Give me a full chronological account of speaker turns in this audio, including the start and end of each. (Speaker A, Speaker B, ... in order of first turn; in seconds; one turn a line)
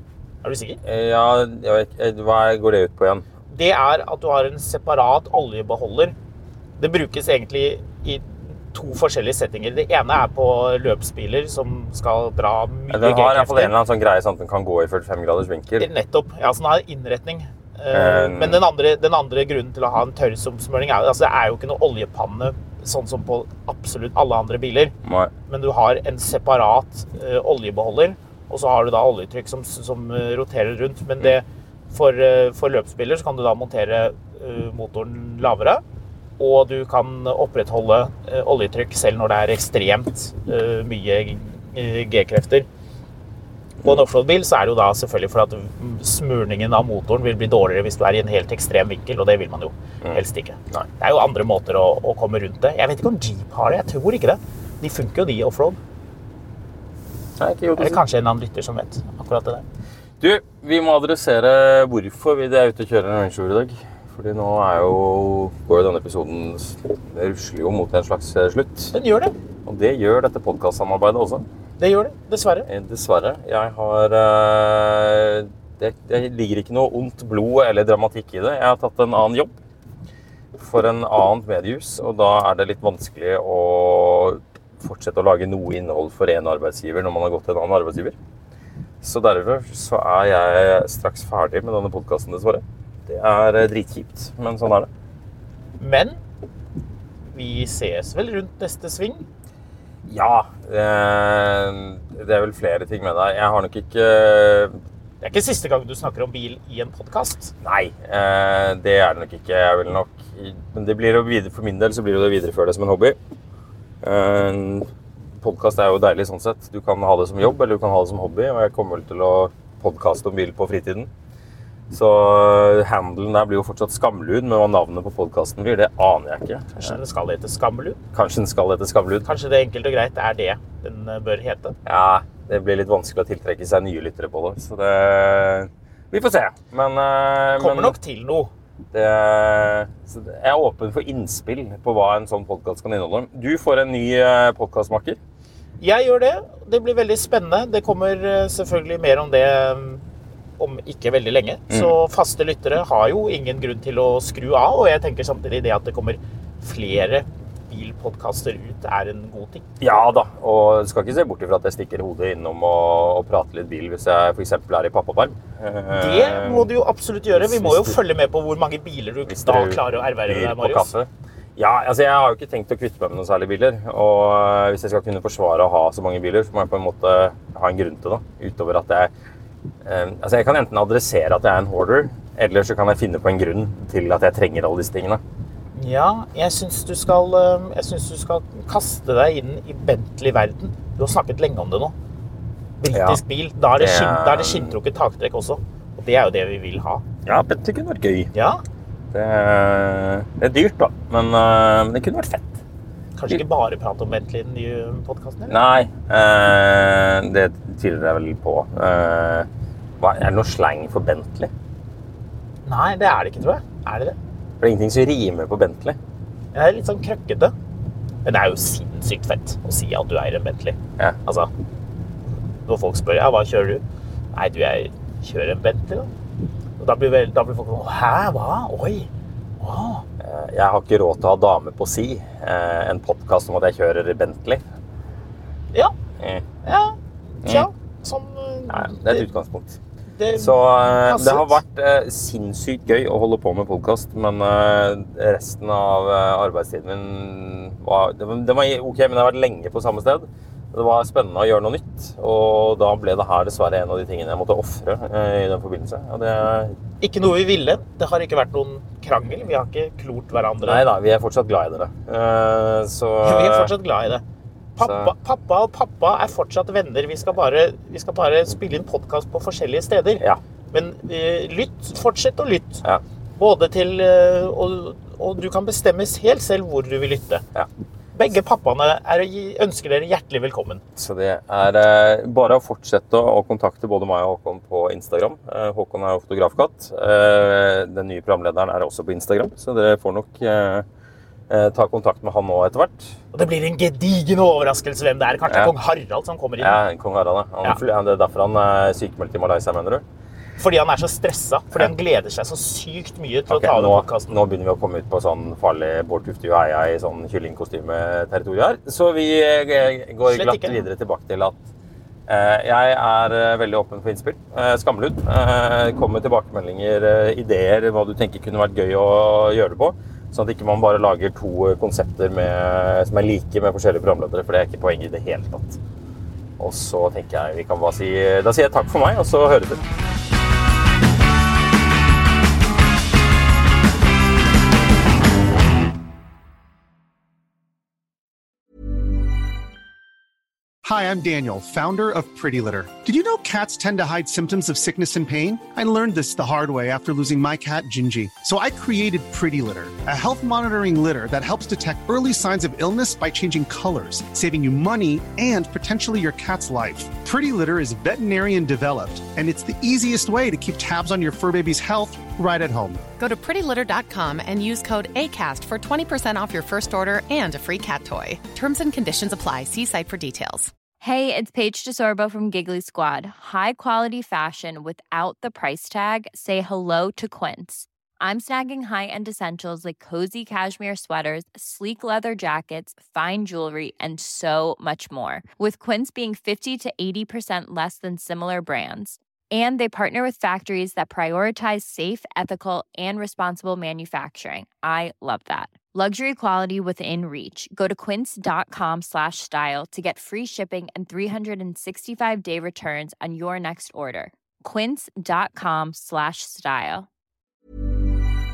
Speaker A: 0.4-0.8
Speaker B: 0.8-3.3
Speaker A: 3.5-6.1
Speaker A: 6.8-13.7
Speaker B: 12.9-15.9
Speaker A: 15.8-24.9
Speaker B: 17.9-18.6
Speaker B: 25.0-25.3
Speaker A: 25.5-35.8
Speaker A: 36.4-42.7
Speaker A: 43.8-55.8
Speaker B: 50.0-50.9
Speaker B: 57.4-58.0
Speaker A: 57.8-59.6
Speaker B: 60.2-68.9
Speaker A: 68.9-69.3
Speaker B: 69.6-71.5
Speaker A: 71.8-72.7
Speaker B: 72.7-79.5
Speaker B: 80.5-88.1
Speaker B: 89.0-94.9
Speaker A: 95.8-96.2
Speaker A: 97.3-99.3
Speaker B: 100.0-104.8
Speaker A: 105.2-107.5
Speaker B: 107.6-113.2
Speaker B: 114.0-121.1
Speaker B: 121.9-127.0
Speaker A: 126.8-128.0
Speaker B: 128.1-129.3
Speaker A: 129.2-131.8
Speaker B: 131.9-138.0
Speaker A: 137.6-138.5
Speaker B: 138.9-145.2
Speaker A: 145.8-150.1
Speaker A: 150.6-159.9
Speaker B: 159.8-166.7
Speaker A: 165.9-170.9
Speaker B: 167.3-168.0
Speaker B: 169.3-179.1
Speaker B: 179.8-185.2
Speaker A: 185.7-191.9
Speaker A: 192.8-197.0
Speaker B: 192.9-193.2
Speaker B: 193.7-194.8
Speaker B: 197.2-198.3
Speaker A: 198.3-198.6
Speaker B: 199.1-202.6
Speaker A: 203.2-205.6
Speaker B: 205.5-209.5
Speaker B: 210.0-211.5
Speaker A: 212.6-214.2
Speaker B: 214.6-216.0
Speaker A: 216.5-217.5
Speaker A: 218.2-221.5
Speaker A: 222.7-226.1
Speaker A: 226.8-229.1
Speaker A: 229.6-230.1
Speaker B: 230.2-234.6
Speaker B: 236.2-236.4
Speaker A: 236.6-239.3
Speaker B: 238.7-239.8
Speaker A: 240.1-241.6
Speaker B: 240.3-256.8
Speaker A: 257.0-260.8
Speaker B: 260.6-263.7
Speaker A: 263.2-264.2
Speaker A: 264.8-277.4
Speaker B: 264.8-265.1
Speaker A: 278.1-280.8
Speaker B: 280.9-290.9
Speaker B: 291.5-293.2
Speaker A: 293.3-296.8
Speaker B: 295.5-295.7
Speaker B: 296.6-300.0
Speaker A: 300.6-304.3
Speaker B: 303.5-311.6
Speaker A: 310.3-310.8
Speaker B: 312.3-325.8
Speaker B: 326.6-329.8
Speaker C: 340.8-363.0
Speaker D: 363.2-370.7
Speaker E: 371.0-407.1